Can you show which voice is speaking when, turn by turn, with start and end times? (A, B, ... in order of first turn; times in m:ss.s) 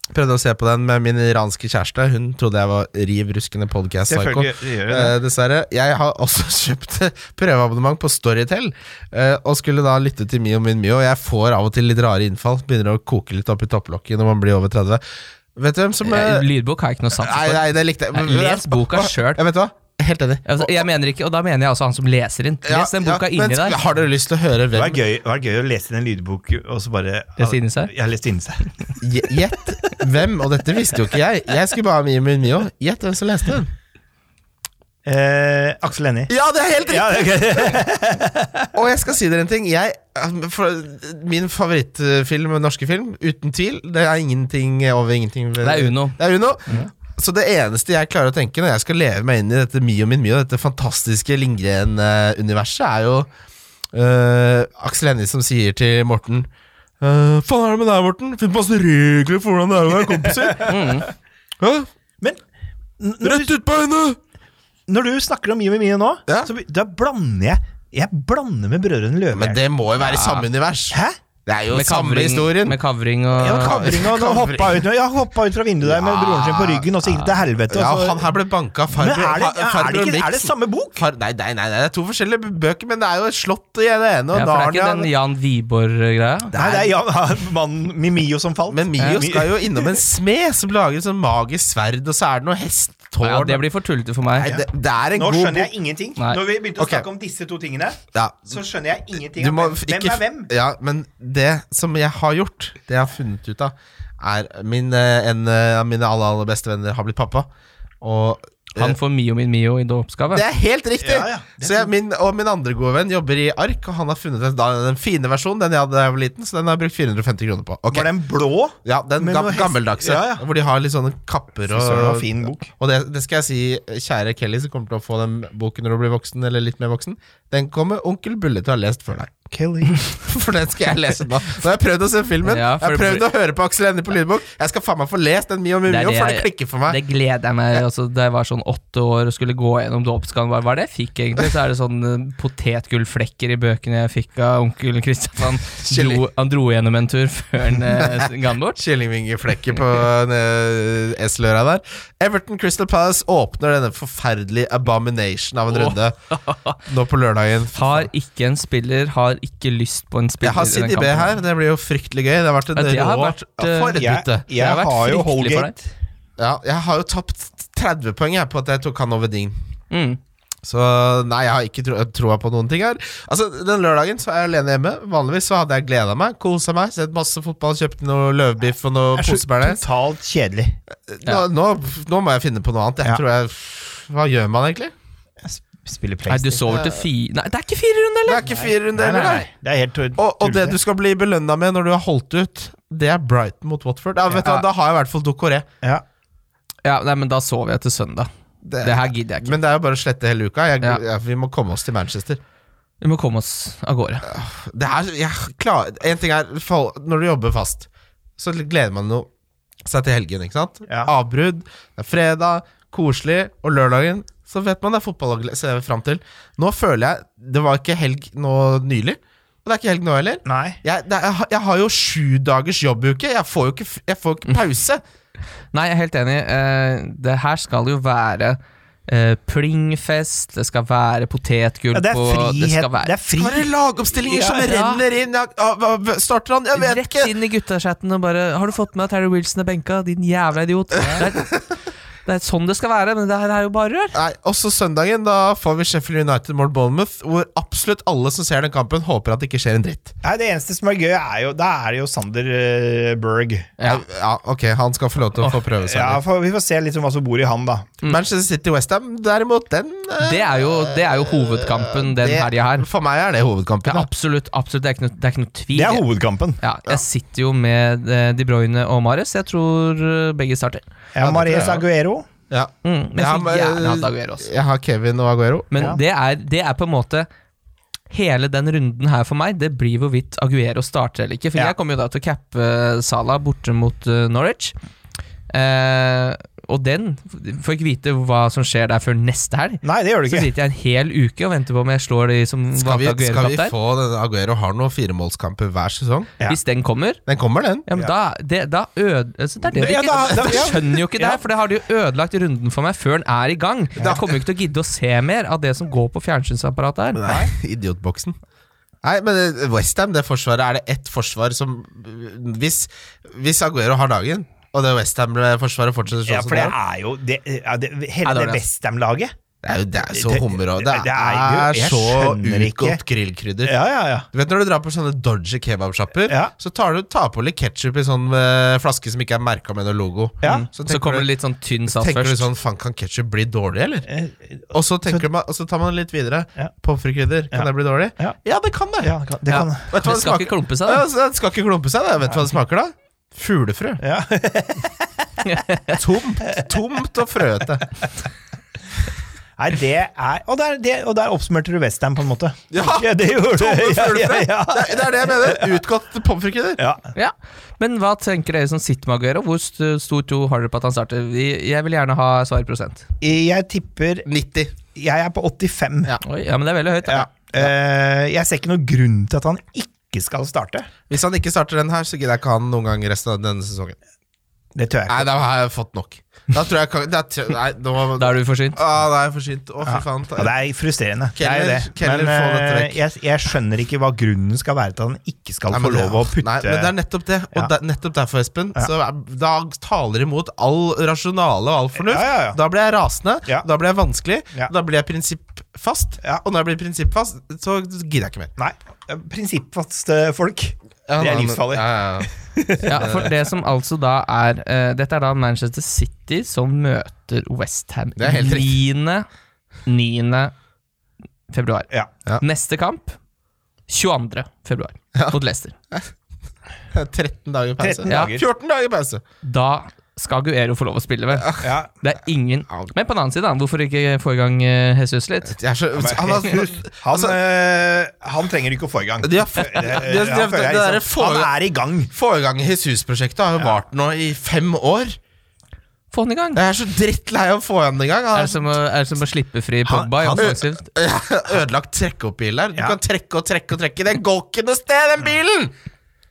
0:00.1-0:15.0 A
0:04.1-0:05.2 B
0:15.5-0:16.5 A
0:16.0-0:19.4 C
0:17.2-0:20.8 A
0:20.4-0:23.8 C
0:22.6-0:25.0 A
0:24.7-0:29.0 B
0:27.4-0:27.9 C
0:29.0-0:33.7 A
0:35.0-0:36.3 B
0:36.3-0:37.8 A
0:36.8-0:38.7 B
0:38.7-0:53.3 A
0:45.6-0:46.2 C
0:53.9-0:56.5 A
0:57.0-1:01.0 A
1:00.7-1:01.1 C
1:01.6-1:01.9 A
1:03.0-1:03.5 B
1:03.2-1:04.2 A
1:04.9-1:09.6 B
1:09.3-1:12.8 A
1:10.1-1:10.4 B
1:10.9-1:11.2 B
1:11.7-1:13.8 C
1:13.4-1:18.3 B
1:13.4-1:14.8 A
1:15.8-1:25.1 A
1:18.9-1:21.0 B
1:24.3-1:26.6 C
1:26.5-1:30.0 B
1:26.5-1:26.8 A
1:28.7-1:33.6 A
1:33.2-1:34.5 C
1:34.3-1:35.7 A
1:34.5-1:40.5 B
1:36.8-1:37.0 A
1:38.1-1:38.6 A
1:39.4-1:47.5 A
1:48.0-1:49.0 A
1:48.8-1:50.4 C
1:50.3-1:58.1 A
1:51.0-1:51.9 B
1:57.9-2:00.4 B
1:58.8-2:09.3 A
2:01.7-2:02.7 B
2:09.5-2:10.1 B
2:10.0-2:17.0 A
2:12.4-2:13.2 C
2:15.9-2:28.8 C
2:25.7-2:26.2 A
2:27.9-2:36.2 A
2:35.7-2:36.8 C
2:36.8-2:38.1 A
2:37.7-2:41.3 C
2:40.4-2:44.4 A
2:42.7-2:45.7 C
2:44.0-2:45.9 B
2:46.4-2:49.6 A
2:49.9-2:50.2 C
2:50.6-2:59.8 A
2:59.1-3:00.8 B
3:01.1-3:04.9 A
3:05.4-3:06.8 B
3:06.3-3:08.5 C
3:06.7-3:07.0 A
3:08.2-3:09.5 A
3:08.4-3:10.8 B
3:10.2-3:15.7 A
3:14.3-3:14.6 B
3:16.8-3:18.3 C
3:18.6-3:22.4 A
3:18.8-3:19.6 C
3:23.0-3:24.3 C
3:24.2-3:29.3 A
3:29.8-3:45.0 A
3:40.4-3:40.8 B
3:45.7-3:53.1 C
3:51.9-3:53.7 B
3:53.3-3:57.3 A
3:54.2-3:54.7 B
3:54.5-3:55.0 C
3:56.7-4:01.6 C
4:02.2-4:04.2 C
4:04.1-4:10.1 A
4:10.2-4:13.7 B
4:13.8-4:16.2 A
4:15.8-4:17.9 B
4:18.0-4:24.1 A
4:20.2-4:22.9 C
4:23.8-4:26.0 C
4:25.7-4:26.6 B
4:26.6-4:30.8 C
4:31.1-4:32.3 B
4:31.2-4:31.8 A
4:32.5-4:35.7 A
4:32.8-4:34.5 C
4:35.7-4:37.3 C
4:38.1-4:44.7 C
4:45.5-4:53.7 C
4:49.8-4:50.5 B
4:52.7-4:56.3 A
4:56.4-4:57.2 C
4:57.2-4:57.9 A
4:57.8-5:07.3 C
4:59.6-5:01.4 B
5:04.0-5:04.2 A
5:07.1-5:08.4 A
5:09.0-5:16.8 A
5:16.2-5:19.3 B
5:18.2-5:18.6 C
5:19.6-5:23.7 A
5:20.1-5:23.0 B
5:23.6-5:24.3 B
5:24.3-5:31.3 A
5:26.3-5:26.5 B
5:30.4-5:30.7 B
5:30.4-5:32.5 C
5:31.9-5:34.1 A
5:34.1-5:35.2 B
5:34.7-5:39.1 A
5:37.5-5:38.4 B
5:39.0-5:39.9 B
5:39.5-5:41.0 C
5:39.8-5:44.0 A
5:44.0-5:45.3 B
5:45.4-5:46.0 C
5:46.0-5:47.8 A
5:49.6-5:55.8 B
5:52.7-5:56.8 A
5:56.8-5:57.1 B
5:57.1-6:03.0 C
6:03.2-6:04.3 B
6:04.2-6:04.7 A
6:04.9-6:06.2 B
6:06.2-6:07.5 C
6:07.0-6:10.9 B
6:11.1-6:14.0 A
6:14.7-6:15.3 B
6:15.1-6:20.5 A
6:18.2-6:18.8 C
6:19.8-6:26.9 B
6:21.4-6:23.0 A
6:25.7-6:38.5 A
6:32.0-6:32.6 B
6:38.6-6:43.2 B
6:41.1-6:42.3 A
6:42.8-6:49.3 C
6:43.0-6:43.3 A
6:48.2-6:48.8 A
6:49.8-6:50.5 C
6:51.5-6:53.2 C
6:53.9-6:55.8 C
6:56.9-6:59.2 A
6:57.8-6:58.4 B
6:58.1-6:58.3 C
6:59.4-7:05.6 C
7:01.3-7:01.7 A
7:01.6-7:01.9 B
7:05.4-7:07.4 A
7:06.0-7:12.1 B
7:09.2-7:11.5 A
7:12.1-7:15.2 A
7:16.1-7:16.6 C
7:16.5-7:18.7 A
7:18.3-7:20.8 C
7:19.8-7:20.6 B
7:20.4-7:25.7 A